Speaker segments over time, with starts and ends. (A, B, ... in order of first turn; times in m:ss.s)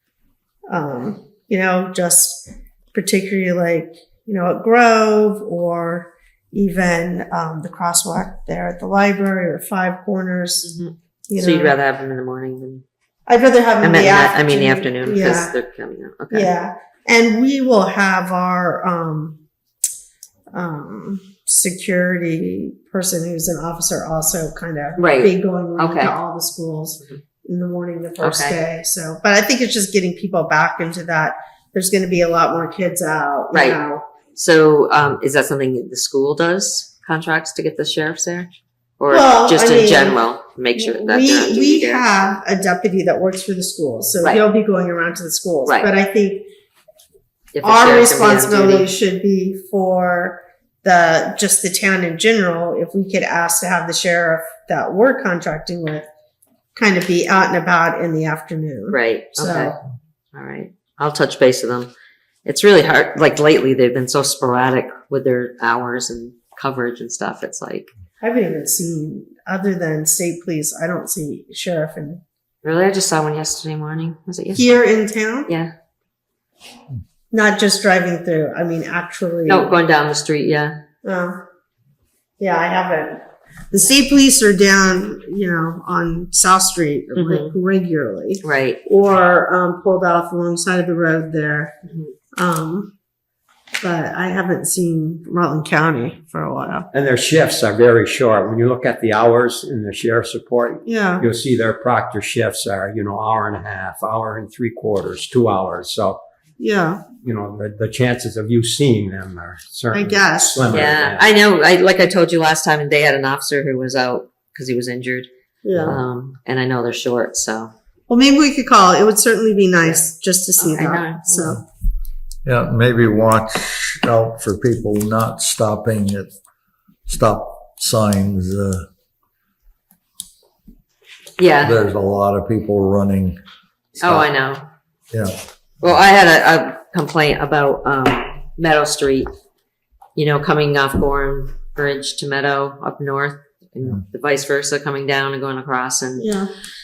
0:00.7-0:10.7 A
0:10.6-0:12.8 B
0:11.3-0:11.8 A
0:13.3-0:15.5 A
0:13.8-0:16.5 B
0:16.3-0:19.4 A
0:20.5-0:34.1 A
0:25.0-0:26.1 B
0:28.2-0:28.6 B
0:33.5-0:33.8 B
0:34.4-0:42.0 B
0:39.1-0:40.2 A
0:40.7-0:46.5 A
0:45.7-0:45.9 B
0:47.5-0:48.9 B
0:47.6-0:56.0 A
0:56.8-0:59.8 A
0:58.9-0:59.8 B
1:00.3-1:01.9 B
1:02.5-1:07.9 B
1:08.2-1:12.2 A
1:12.6-1:14.8 B
1:14.5-1:15.5 A
1:17.3-1:19.7 A
1:19.5-1:20.8 B
1:21.0-1:21.4 A
1:22.4-1:31.8 A
1:27.2-1:27.5 B
1:28.4-1:28.8 B
1:32.4-1:32.9 A
1:33.8-1:36.9 A
1:36.9-1:46.2 C
1:40.8-1:41.3 A
1:46.6-1:47.0 A
1:47.2-1:51.3 C
1:49.9-1:50.6 A
1:50.7-1:57.7 B
1:55.6-1:56.0 A
1:58.1-2:01.6 A
2:00.6-2:01.6 B
2:02.4-2:06.3 D
2:07.1-2:08.9 D
2:11.4-2:11.8 B
2:11.6-2:13.4 D
2:14.0-2:14.6 B
2:15.1-2:15.4 D
2:15.8-2:19.3 B
2:20.2-2:26.3 B
2:26.2-2:26.5 A